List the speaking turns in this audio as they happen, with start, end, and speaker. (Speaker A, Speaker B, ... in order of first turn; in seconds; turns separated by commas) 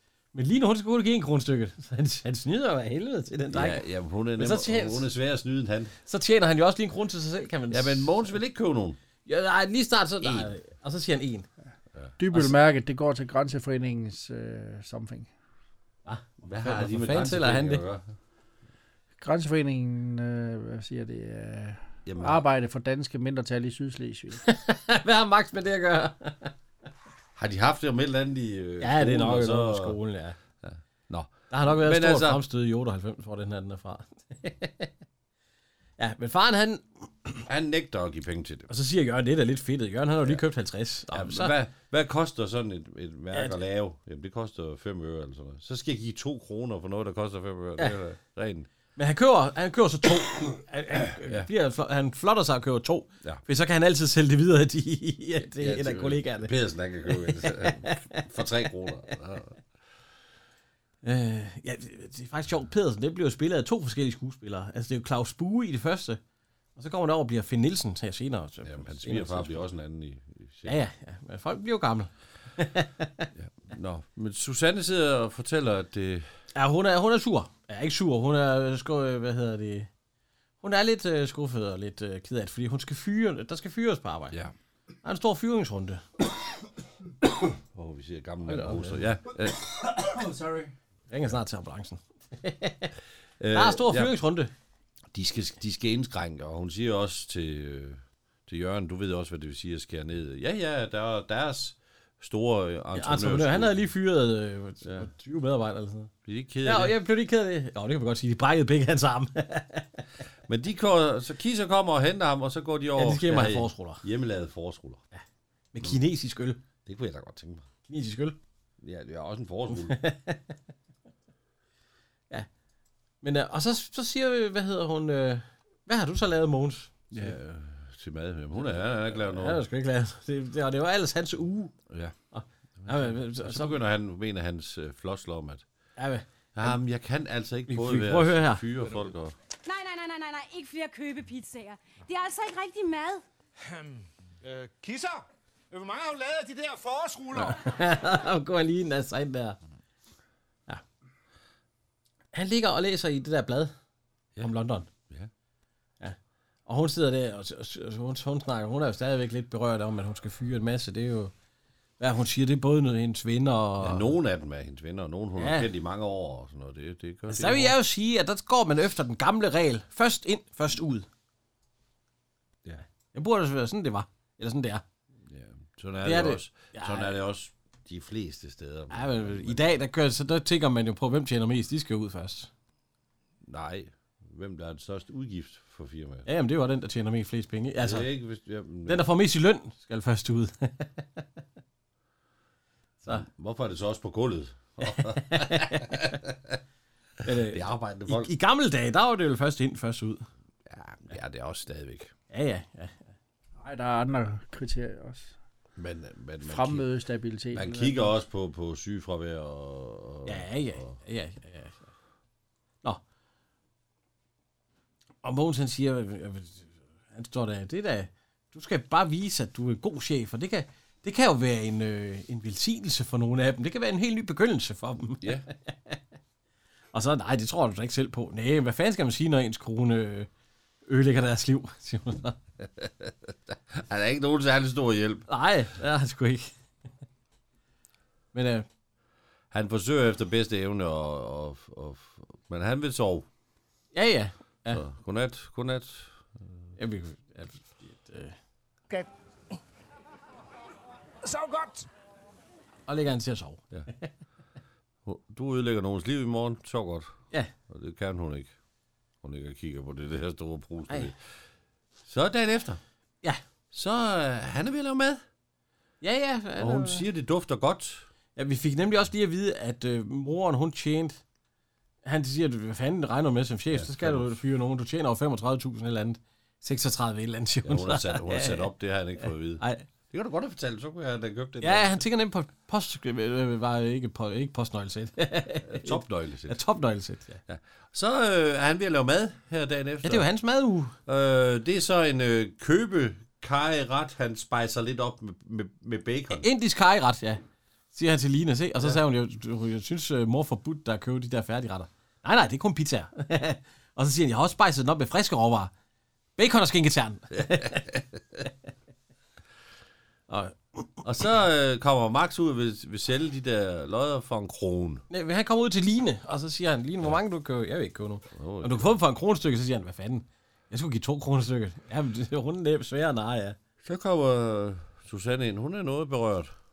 Speaker A: 0.3-3.8, Speaker B: 3.5-5.9, Speaker A: 4.4-5.1, Speaker A: 6.1-8.2, Speaker B: 7.7-9.0, Speaker A: 9.3-11.5, Speaker B: 10.2-10.5, Speaker C: 12.2-15.3, Speaker A: 16.1-17.8, Speaker B: 16.4-18.1, Speaker C: 19.2-24.4, Speaker B: 22.1-22.4, Speaker A: 24.4-26.5, Speaker B: 27.4-30.0, Speaker A: 28.8-30.4, Speaker B: 30.6-32.4, Speaker A: 31.5-34.9, Speaker A: 36.0-37.5, Speaker B: 37.5-38.7, Speaker A: 38.7-41.5, Speaker B: 41.1-48.7, Speaker A: 49.0-56.5, Speaker B: 51.2-51.5, Speaker B: 55.5-59.6, Speaker A: 57.1-58.3, Speaker A: 61.0-66.2, Speaker A: 66.8-69.6, Speaker B: 68.6-70.8, Speaker A: 70.7-73.3, Speaker B: 73.3-76.3, Speaker A: 76.5-79.9, Speaker A: 80.6-84.4, Speaker A: 85.0-86.0, Speaker B: 87.7-89.9, Speaker A: 88.5-89.1, Speaker C: 90.1-90.7, Speaker A: 91.1-92.9, Speaker B: 93.4-94.2, Speaker A: 93.5-94.5, Speaker B: 95.1-103.8, Speaker A: 102.9-106.1, Speaker B: 106.2-107.0, Speaker A: 106.7-110.0, Speaker B: 110.5-115.0, Speaker A: 113.0-114.0, Speaker A: 115.1-116.6, Speaker B: 116.8-117.7, Speaker A: 117.9-118.4, Speaker B: 118.8-120.0, Speaker A: 119.7-120.5, Speaker A: 123.2-127.4, Speaker B: 127.1-129.6, Speaker A: 129.1-131.7, Speaker B: 131.9-132.2, Speaker A: 132.3-133.8, Speaker B: 132.8-135.6, Speaker A: 136.0-136.7, Speaker B: 136.6-139.3, Speaker A: 137.7-138.6, Speaker D: 139.7-143.2, Speaker E: 143.6-147.6, Speaker A: 147.3-149.6, Speaker A: 152.3-153.7, Speaker A: 154.4-154.9, Speaker A: 156.0-161.3, Speaker A: 162.0-164.1, Speaker B: 163.8-167.8, Speaker A: 165.4-165.7, Speaker A: 167.3-171.1, Speaker A: 173.1-174.8, Speaker B: 175.3-179.8, Speaker A: 176.0-177.2, Speaker A: 178.9-182.5, Speaker B: 183.4-186.3, Speaker A: 186.3-188.1, Speaker B: 187.8-189.1, Speaker A: 188.9-191.2, Speaker B: 193.1-196.6, Speaker A: 194.8-195.9, Speaker A: 197.2-200.3, Speaker B: 197.3-198.3, Speaker B: 200.7-202.1, Speaker A: 202.3-203.1, Speaker C: 203.6-205.3, Speaker B: 205.8-206.9, Speaker C: 206.4-208.1, Speaker B: 207.5-210.9, Speaker A: 210.2-211.9, Speaker A: 215.2-226.0, Speaker A: 226.9-230.3, Speaker A: 230.9-232.4, Speaker B: 232.8-233.1, Speaker B: 233.7-235.3, Speaker A: 235.3-236.5, Speaker A: 238.3-238.7, Speaker B: 239.5-243.3, Speaker A: 243.9-244.8, Speaker B: 244.7-246.3, Speaker A: 246.8-248.4, Speaker E: 251.2-251.9, Speaker A: 252.9-254.1, Speaker B: 255.1-258.5, Speaker B: 259.2-261.2, Speaker B: 262.1-262.8, Speaker B: 263.7-265.2, Speaker A: 266.0-267.0, Speaker B: 266.6-268.1, Speaker A: 268.4-271.2, Speaker A: 272.1-278.7, Speaker B: 273.7-274.4, Speaker B: 277.6-282.0, Speaker A: 279.6-279.9, Speaker A: 281.6-287.4, Speaker B: 285.6-286.6, Speaker B: 287.5-290.3, Speaker A: 290.0-290.9, Speaker B: 291.1-296.4, Speaker A: 296.4-297.4, Speaker A: 297.9-305.7, Speaker A: 306.4-307.9, Speaker B: 307.4-308.2, Speaker A: 310.3-310.9, Speaker B: 311.0-315.1, Speaker A: 315.1-323.6, Speaker B: 318.3-319.0, Speaker B: 323.8-326.5